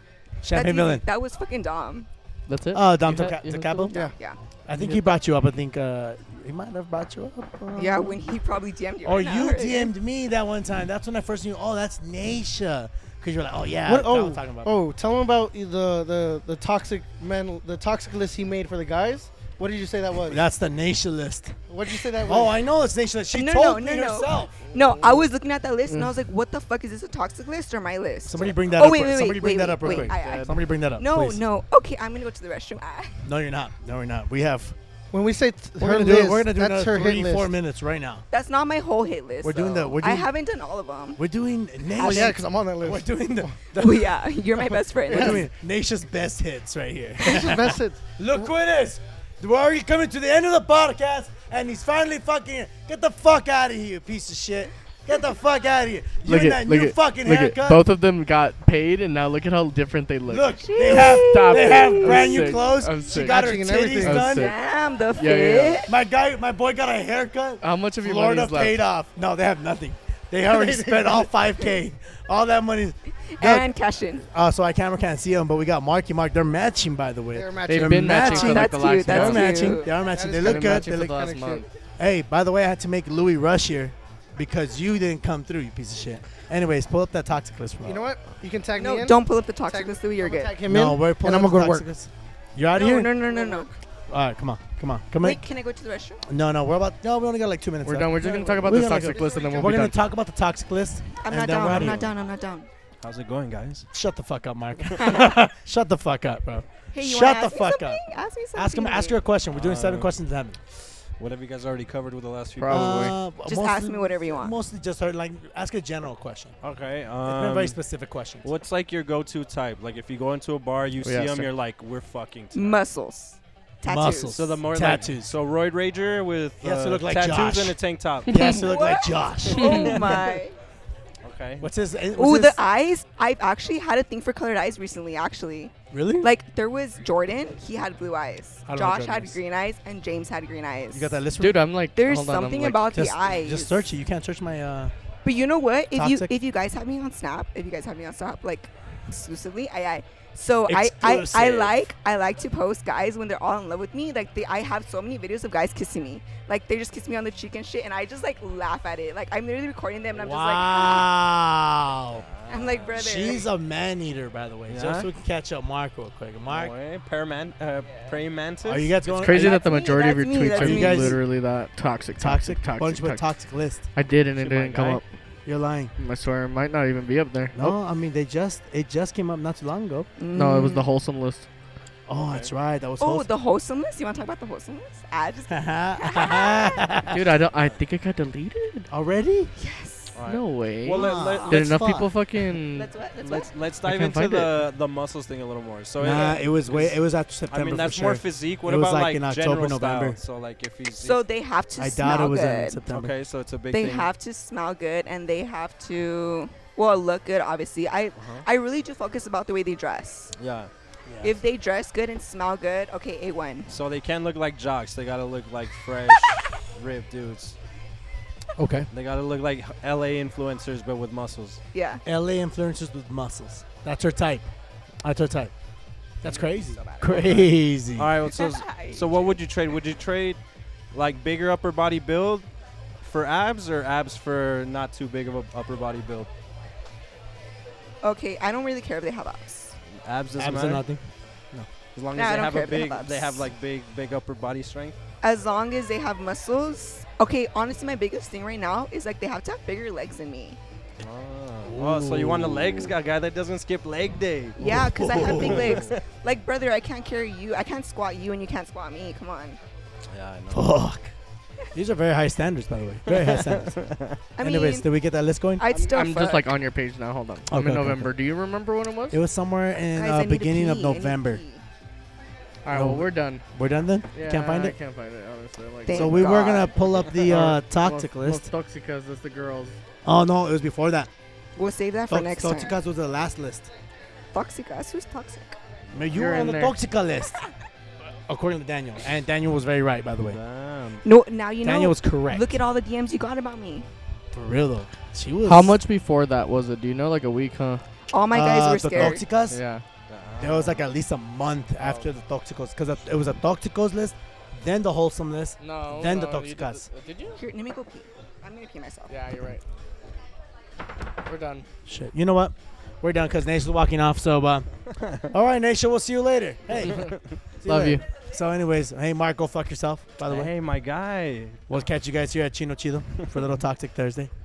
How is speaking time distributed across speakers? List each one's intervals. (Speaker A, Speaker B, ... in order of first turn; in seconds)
Speaker A: 0.4-1.0, 2.7-4.0, 4.7-8.3, 9.0-14.7, 20.3-21.6, 22.2-24.6, 28.3-31.4, 33.2-34.8, 35.8-38.2, 39.4-40.3, 41.2-44.2, 45.1-57.9, 60.3-64.5, 65.9-80.9, 82.0-88.1, 90.7-93.1, 94.1-95.5, 96.3-102.1, 103.9-108.0, 108.5-110.6, 112.7-116.5, 117.2-118.5, 123.9-125.3, 126.6-130.2, 131.6-132.6, 135.9-136.3, 138.7-139.4, 140.9-141.7, 142.9-144.9, 145.9-146.3, 150.7-151.8, 160.2-162.2, 162.9-166.7, 168.6-169.6, 170.6-171.2, 172.2-173.8, 175.5-175.9, 177.5-180.1, 182.1-183.3, 185.5-187.3, 188.9-189.5, 191.0-192.1, 196.0-200.2, 201.8-203.1, 211.1-211.3, 218.6-218.9, 222.1-224.5, 225.0-225.5, 226.2-228.2, 240.4-241.7, 251.6-252.9, 254.6-255.8, 260.5-261.1, 261.7-263.8, 264.4-265.6, 267.5-268.1, 269.1-271.4, 272.7-274.8, 275.9-278.5, 280.1-281.1, 282.1-283.7, 285.9-287.4, 288.0-290.4, 291.6-292.6, 294.3-295.8, 298.3-299.6, 300.4-306.8, 311.9-314.7, 315.2-320.5, 321.7-324.3
Speaker B: 0.5-2.1, 3.9-4.4, 7.8-9.9, 23.3-33.2, 38.3-41.2, 42.0-42.4, 43.8-45.5, 60.6-62.2, 64.3-65.9, 73.3-74.2, 78.1-79.9, 88.8-90.6, 92.7-93.7, 95.2-96.2, 101.2-102.7, 105.1-105.3, 106.9-109.2, 113.5-114.6, 122.5-124.4, 128.5-130.6, 132.2-141.2, 142.0-143.9, 145.2-161.1, 162.5-163.4, 167.9-168.1, 169.2-171.2, 180.2-180.9, 183.0-186.9, 189.6-190.2, 190.9-191.6, 192.8-193.5, 201.0-202.8, 203.7-210.3, 211.2-213.7, 221.7-222.0, 228.2-229.4, 238.0-239.7, 242.2-243.5, 245.2-250.6, 254.6-259.6, 264.4-264.9, 265.6-266.5, 269.9-271.6, 275.9-276.9, 281.6-282.8, 284.3-285.6, 291.0-293.9, 298.1-299.2, 307.4-309.1
Speaker C: 2.5-4.0, 4.7-5.2, 29.8-30.6, 56.3-64.6, 65.2-65.8, 67.6-68.8, 77.7-81.7, 97.8-100.0, 112.6-113.2, 121.0-121.5, 128.3-128.6, 129.6-129.9, 141.4-142.9, 169.1-173.3, 173.9-175.1, 176.0-177.7, 180.3-181.5, 187.1-188.9, 190.3-192.9, 193.8-194.6, 265.7-269.2, 272.6-273.4, 274.1-279.8, 286.1-286.8, 295.4-297.8, 299.0-299.8, 305.6-307.4, 309.1-309.6, 311.2-311.7, 317.7-318.0
Speaker D: 13.9-20.4, 21.7-22.6, 35.1-37.5, 42.0-43.1, 45.1-45.4, 47.2-48.5, 63.1-64.3, 70.5-71.3, 77.3-78.3, 80.0-81.6, 87.8-91.9, 93.3-93.8, 98.4-99.7
Speaker E: 98.2-99.5, 101.8-102.0, 103.0-103.9, 109.5-110.1, 111.2-113.2, 116.6-117.8, 118.4-122.8, 124.3-128.4, 131.2-131.7, 162.1-163.3, 164.7-165.1, 166.5-169.1, 174.4-175.0, 182.2-182.5, 190.2-191.6, 193.2-197.0, 197.5-201.2, 202.9-204.1, 208.2-208.4, 210.4-210.7, 213.7-217.6, 218.9-221.6, 227.0-227.5, 228.0-230.4, 230.9-232.5, 233.0-236.3, 240.0-240.8, 241.9-245.0, 251.0-256.0, 260.1-260.7, 263.1-264.2, 290.2-291.1, 300.1-300.8, 320.3-321.7